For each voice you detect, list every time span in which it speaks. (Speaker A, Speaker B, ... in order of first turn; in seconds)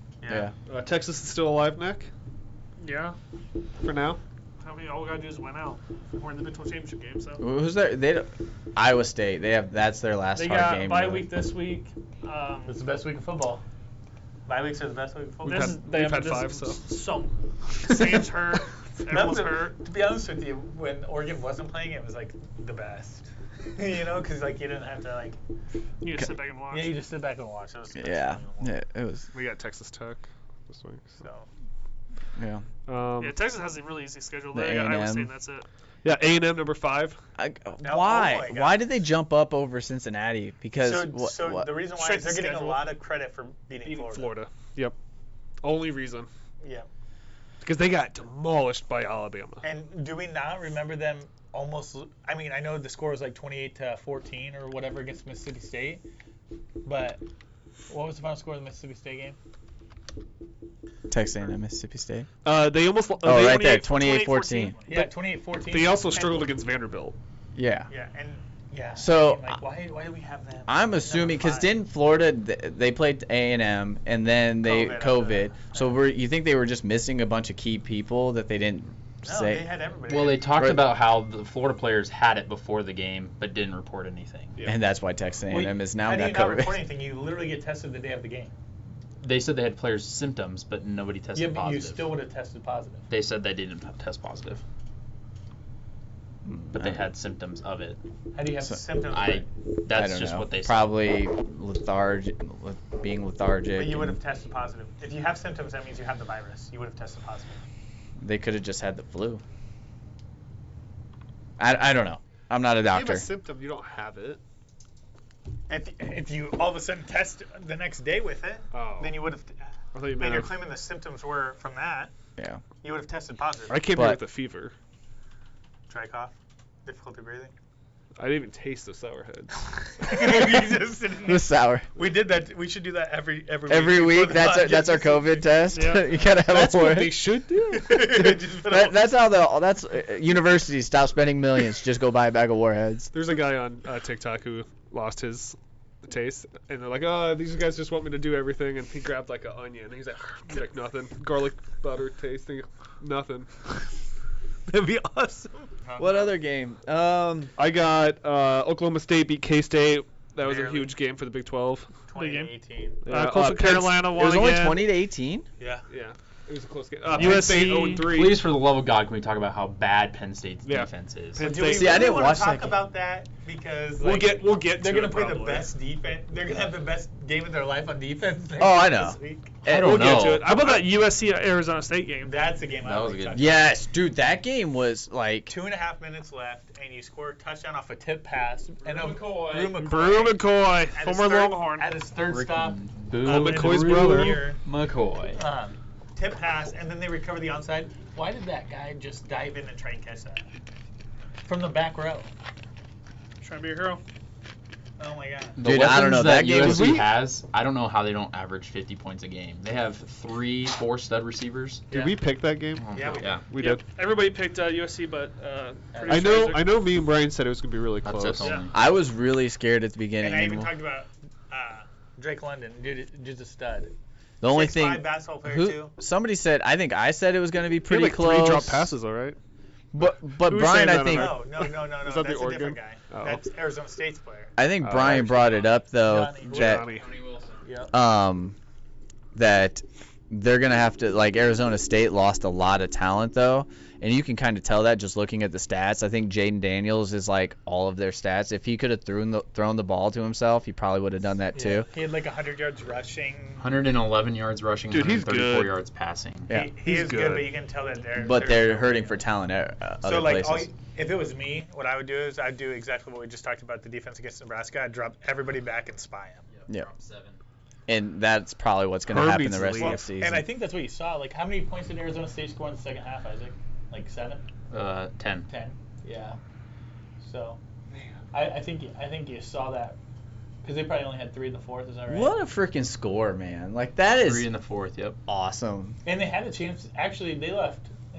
Speaker A: 0.2-0.5, 12.7-13.6, 14.5-15.8, 17.9-18.3, 19.1-25.4, 26.7-28.8, 31.2-31.5, 37.8-38.9, 40.8-44.3, 46.6-46.9, 49.6-56.0, 56.8-57.2, 57.9-59.4, 64.9-66.5, 67.9-71.7, 74.6-76.0, 79.2-80.5, 85.5-88.5, 91.3-93.1, 98.3-99.5, 103.7-107.6, 115.7-122.1, 122.8-123.8, 125.9-126.3, 126.8-127.5, 130.0-135.8, 137.7-139.1, 155.8-156.3, 160.4-160.9, 162.1-163.0, 165.6-165.8, 171.4-179.6, 182.2-183.7, 185.5-194.6, 195.3-200.5, 201.4-202.3, 205.0-205.6, 211.9-212.2, 212.9-213.4, 215.9-216.5, 218.4-218.7, 220.2-223.9, 224.5-225.9, 231.1-234.5, 235.1-236.9, 237.6-237.9, 251.5-253.8, 256.5-259.2, 260.0-266.4, 269.8-274.4, 275.5-276.4, 277.2-277.6, 278.3-280.0, 280.6-282.3, 286.0-287.9
Speaker B: 0.3-0.5, 7.4-11.3, 27.9-29.3, 32.4-32.6, 34.5-35.3, 37.4-41.7, 61.1-62.3, 63.2-64.8, 67.5-67.9, 69.0-69.6, 70.7-79.6, 80.6-80.9, 84.6-86.8, 96.5-97.0, 99.9-104.2, 108.2-109.4, 111.6-113.3, 123.9-124.2, 131.2-131.9, 133.7-137.3, 137.8-143.1, 156.0-157.5, 164.1-165.5, 171.6-172.8, 178.6-180.2, 183.3-185.5, 205.6-207.0, 218.7-220.7, 224.4-228.9, 229.9-231.4, 234.6-236.9, 237.9-238.6, 239.3-251.9, 258.1-260.7, 267.9-270.4, 282.1-284.5, 285.3-286.0
Speaker C: 0.7-2.1, 3.8-4.2, 15.4-16.9, 29.3-31.2, 32.9-33.5, 36.0-37.2, 43.8-45.0, 45.6-46.3, 47.6-49.6, 62.4-64.0, 65.7-67.2, 112.9-114.4, 118.7-119.2, 119.9-120.6, 123.7-124.7, 128.2-130.3, 136.4-138.4, 143.1-153.7, 154.7-155.6, 157.5-161.9, 163.0-164.1, 165.9-168.5, 170.6-172.2, 174.0-175.7, 179.7-180.9, 193.2-194.4, 206.4-207.1, 211.9-213.8, 216.1-218.6, 227.9-229.4, 230.0-233.4, 234.8-235.6, 236.4-237.1, 254.9-255.8, 256.8-257.6, 269.1-270.0
Speaker D: 2.8-3.1, 4.6-7.4, 10.3-12.8, 15.4-19.7, 26.0-27.0, 33.2-35.6, 41.9-42.9, 63.9-65.0, 135.7-136.2, 162.2-164.9, 167.1-168.2, 180.2-182.5, 189.7-191.9, 203.4-204.0, 213.6-216.8
Speaker E: 80.1-84.5, 89.2-92.1, 93.1-94.6, 96.7-98.0, 99.1-100.9, 168.0-171.4, 179.7-180.5, 182.8-183.5, 188.8-189.8, 192.2-195.4, 205.6-211.9, 212.8-213.4, 218.0-218.8, 236.8-237.7, 253.6-256.5, 266.5-267.4, 274.7-275.5, 284.2-285.2